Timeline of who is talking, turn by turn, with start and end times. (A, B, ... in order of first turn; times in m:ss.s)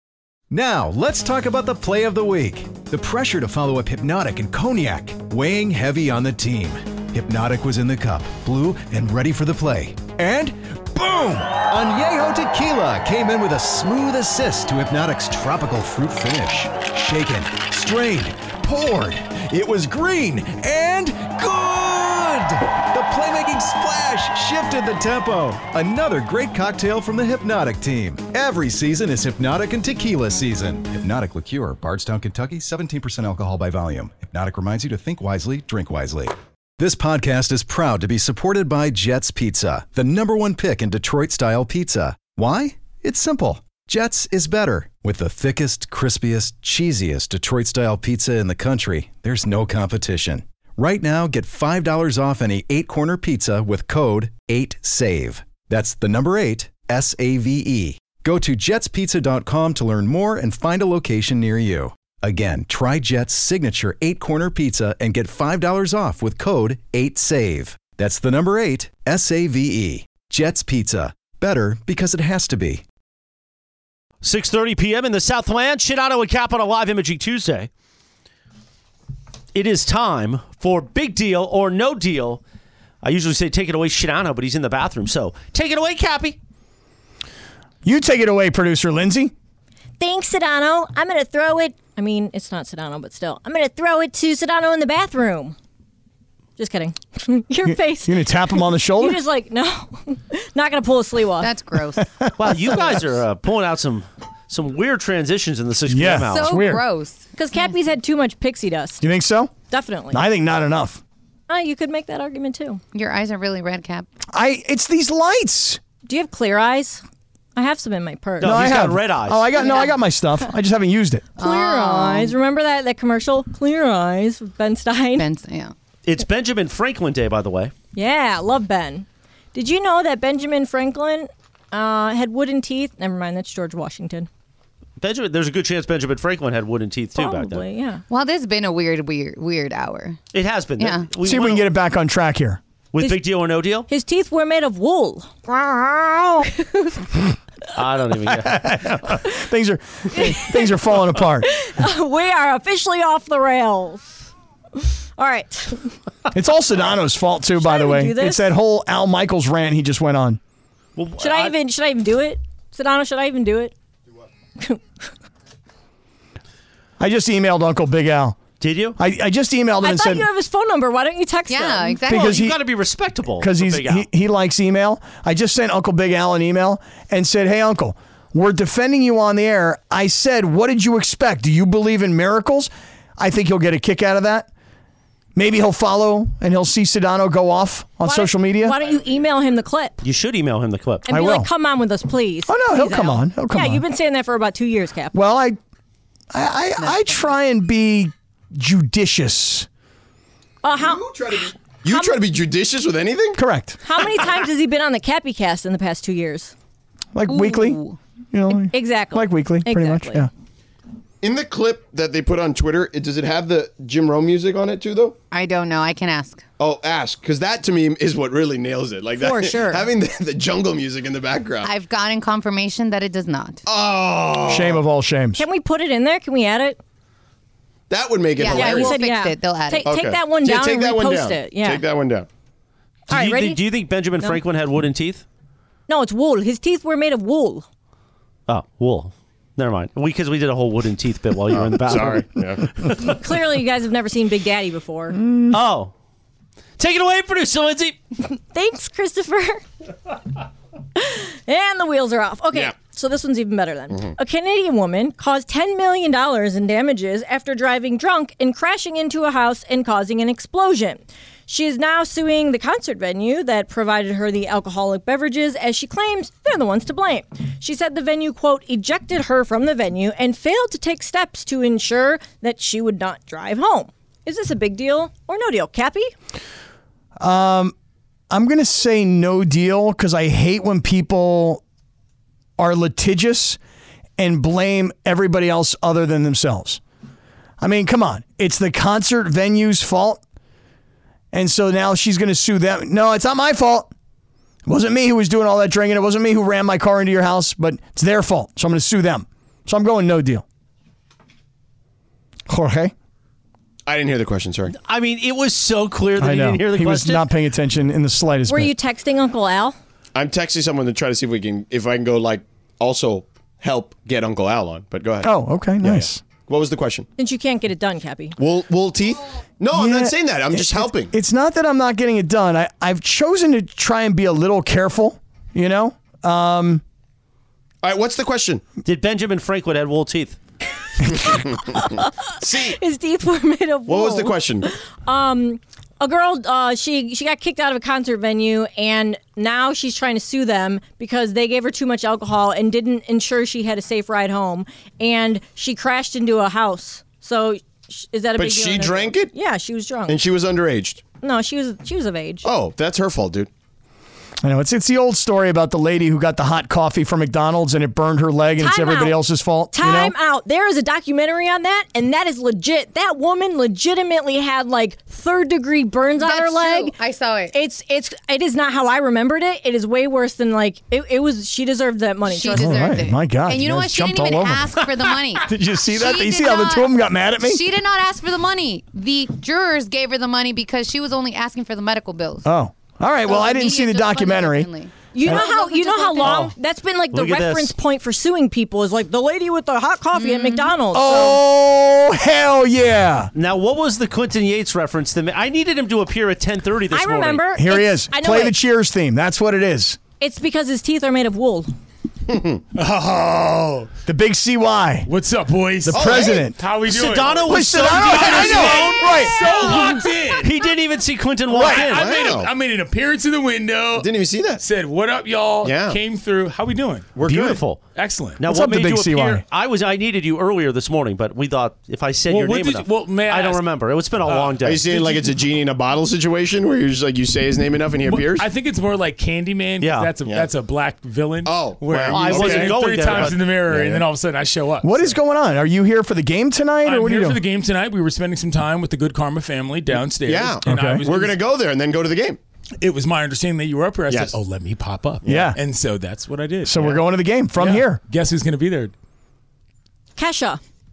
0:00.5-1:12.8 A
1:14.2-1:17.7 B
1:19.5-1:22.4 B
1:23.0-1:26.4 B
1:27.8-1:29.3 C
1:30.0-1:35.6 D
1:36.6-1:41.5 D
1:37.6-1:39.2 C
1:41.4-1:42.1 E
1:42.0-1:43.0 C
1:42.4-1:46.6 B
1:45.9-1:46.8 C
1:46.3-1:47.7 E
1:47.4-1:49.0 D
1:49.0-1:49.5 C
1:49.7-1:50.2 D
1:50.1-1:51.0 C
1:51.5-1:52.8 D
1:52.9-1:54.1 E
1:54.3-1:55.8 C
1:56.0-1:57.0 D
1:57.6-1:58.7 D
1:58.4-1:59.6 B
1:58.4-2:01.3 C
1:59.6-1:59.9 D
2:01.4-2:02.3 E
2:01.4-2:05.3 D
2:05.2-2:05.7 E
2:06.1-2:07.7 B
2:07.9-2:14.3 D
2:15.0-2:17.6 B
2:17.2-2:18.0 D
2:18.1-2:20.2 E
2:20.3-2:21.7 B
2:20.8-2:21.1 E
2:21.2-2:22.6 C
2:22.9-2:23.9 B
2:23.9-2:27.0 D
2:27.7-2:29.0 B
2:28.4-2:31.5 C
2:30.1-2:30.8 D
2:31.4-2:34.2 D
2:34.8-2:36.0 D
2:36.3-2:40.4 C
2:37.6-2:38.4 D
2:41.0-2:41.5 B
2:41.2-2:43.7 D
2:47.0-2:48.4 C
2:48.6-2:49.0 B
2:49.0-2:50.3 C
2:49.8-2:52.1 D
2:51.5-2:52.5 E
2:52.1-2:52.6 C
2:52.1-2:54.1 B
2:53.4-3:04.5 C
3:05.4-3:08.8 C
3:08.0-3:10.0 D
3:10.0-3:11.1 B
3:11.1-3:15.2 D
3:11.1-3:11.5 C
3:12.5-3:13.8 C
3:15.1-3:15.6 C
3:16.3-3:19.7 C
3:20.6-3:22.2 D
3:20.8-3:23.4 F
3:23.4-3:23.8 C
3:23.8-3:26.5 D
3:27.2-3:27.8 C
3:27.3-3:27.7 D
3:27.6-3:28.0 E
3:28.3-3:30.3 C
3:28.6-3:30.3 D
3:31.2-3:35.2 F
3:35.3-3:36.4 E
3:36.6-3:41.7 F
3:39.2-3:39.9 D
3:41.6-3:43.6 E
3:43.7-3:44.8 F
3:44.5-3:45.4 C
3:45.4-3:46.8 D
3:47.9-3:49.0 F
3:48.4-3:49.9 E
3:48.4-3:51.8 D
3:49.8-3:52.3 F
3:53.1-3:53.6 D
3:53.1-3:55.2 B
3:55.9-3:57.7 D
3:58.5-4:03.2 B
4:01.5-4:02.9 F
4:03.0-4:05.2 D
4:05.2-4:05.6 C
4:05.5-4:05.9 B
4:06.8-4:08.0 B
4:08.4-4:09.6 D
4:11.0-4:36.1 D
4:37.2-4:37.7 C
4:38.3-4:41.6 C
4:42.6-4:43.6 C
4:44.2-4:46.8 C
4:47.6-4:50.2 C
4:51.3-4:53.9 C
4:54.7-5:00.4 C
5:02.5-5:02.9 C
5:03.9-5:04.8 F
5:04.8-5:07.3 B
5:06.2-5:08.7 C
5:08.5-5:09.8 D
5:10.2-5:17.1 F
5:15.2-5:16.2 C
5:17.2-5:18.4 D
5:18.4-5:21.1 F
5:19.7-5:26.8 C
5:27.8-5:28.6 F
5:28.8-5:30.4 B
5:31.1-5:32.8 F
5:31.9-5:50.2 D
5:33.9-5:34.7 F
5:48.4-5:49.3 F
5:50.1-5:51.0 F
5:51.2-5:52.5 D
5:52.4-5:53.5 F
5:54.4-6:00.1 C
5:58.6-5:59.2 D
5:59.7-6:07.0 D
6:06.2-6:07.6 E
6:07.5-6:13.0 D
6:12.2-6:22.5 E
6:12.5-6:14.8 C
6:15.5-6:17.6 C
6:22.4-6:24.7 C
6:23.2-6:26.2 E
6:25.1-6:31.4 D
6:26.2-6:26.5 B
6:27.1-6:27.8 B
6:30.2-6:30.7 E
6:30.9-6:33.3 C
6:33.3-6:37.4 B
6:36.9-6:38.6 D
6:37.6-6:40.0 C
6:40.2-6:41.7 D
6:42.3-6:42.6 F
6:42.8-6:43.9 G
6:44.1-6:45.1 C
6:45.1-6:50.5 G
6:45.8-6:46.6 C
6:45.9-6:46.5 F
6:46.8-6:49.1 B
6:47.5-6:49.9 C
6:49.6-6:50.0 D
6:50.4-6:52.1 B
6:51.5-6:51.8 C
6:51.5-6:54.1 G
6:51.7-6:52.5 F
6:54.0-6:54.6 F
6:54.6-6:57.1 G
6:55.6-6:56.0 F
6:57.2-6:57.6 F
6:57.2-6:57.9 B
6:57.9-6:58.4 G
6:58.4-7:04.9 B
6:58.4-6:59.4 C
7:02.3-7:03.6 G
7:04.2-7:05.2 G
7:04.6-7:08.5 F
7:08.1-7:15.1 G
7:09.8-7:10.1 B
7:11.4-7:14.0 F
7:12.1-7:13.9 B
7:14.8-7:17.4 C
7:16.8-7:21.4 G
7:20.3-7:22.4 F
7:20.6-7:21.0 C
7:22.8-7:27.0 G
7:24.1-7:24.4 F
7:25.2-7:25.5 F
7:25.2-7:25.6 C
7:26.6-7:28.0 C
7:27.6-7:28.9 G
7:30.2-7:30.6 D